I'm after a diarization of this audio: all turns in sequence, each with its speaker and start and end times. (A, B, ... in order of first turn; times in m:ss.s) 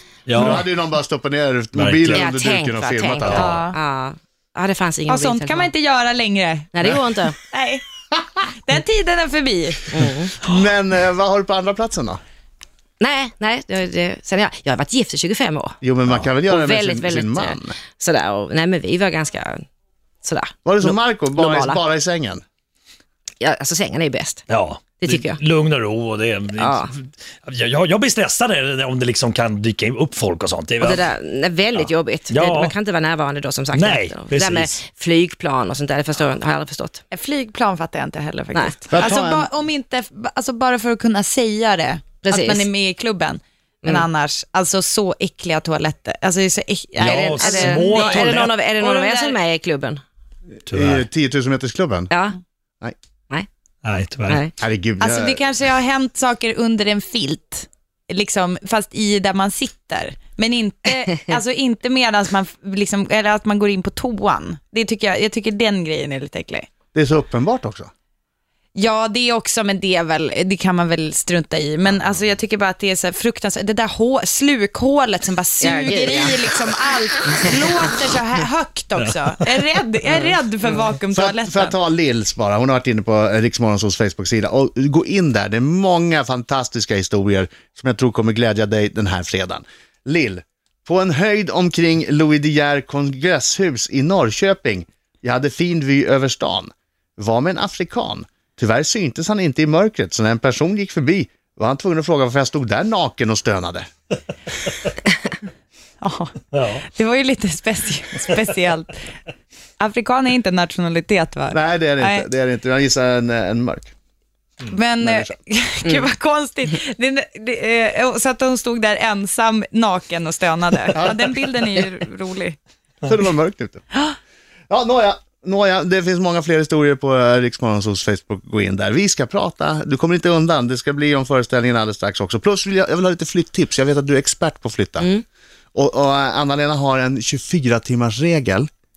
0:00.3-0:00.7 A
0:00.4-0:03.6 B
0:01.8-0:02.3 A
0:02.1-0:05.7 C
0:03.3-0:03.8 D
0:05.1-0:06.9 D
0:06.7-0:07.4 C
0:07.5-0:07.8 D
0:08.4-0:09.8 D
0:09.9-0:10.3 C
0:10.4-0:12.2 B
0:13.0-0:19.6 C
0:15.8-0:17.8 B
0:20.2-0:21.8 C
0:20.6-0:22.4 B
0:23.4-0:24.4 C
0:24.5-0:31.1 A
0:25.0-0:25.4 C
0:26.6-0:26.9 C
0:30.8-0:37.0 C
0:31.8-0:32.8 A
0:33.7-0:34.8 A
0:37.1-0:49.4 D
0:38.9-0:39.5 B
0:42.2-0:42.7 C
0:47.0-0:48.6 A
0:47.4-0:50.0 C
0:50.7-0:51.0 A
0:50.7-0:52.1 B
0:52.1-0:52.4 C
0:53.8-0:54.4 A
0:54.3-0:54.5 C
0:54.6-0:55.4 B
0:55.0-1:06.7 D
1:06.9-1:07.9 B
1:08.8-1:21.8 D
1:15.6-1:16.7 C
1:19.0-1:19.6 A
1:20.1-1:20.8 C
1:21.1-1:43.9 B
1:46.0-1:46.3 D
1:46.5-1:46.9 A
1:46.9-1:48.9 D
1:49.8-1:52.3 D
1:51.5-1:53.9 B
1:54.7-2:02.6 D
1:55.0-1:55.3 B
2:00.9-2:01.3 B
2:03.0-2:03.8 B
2:04.7-2:15.1 B
2:15.0-2:15.2 C
2:15.7-2:18.7 B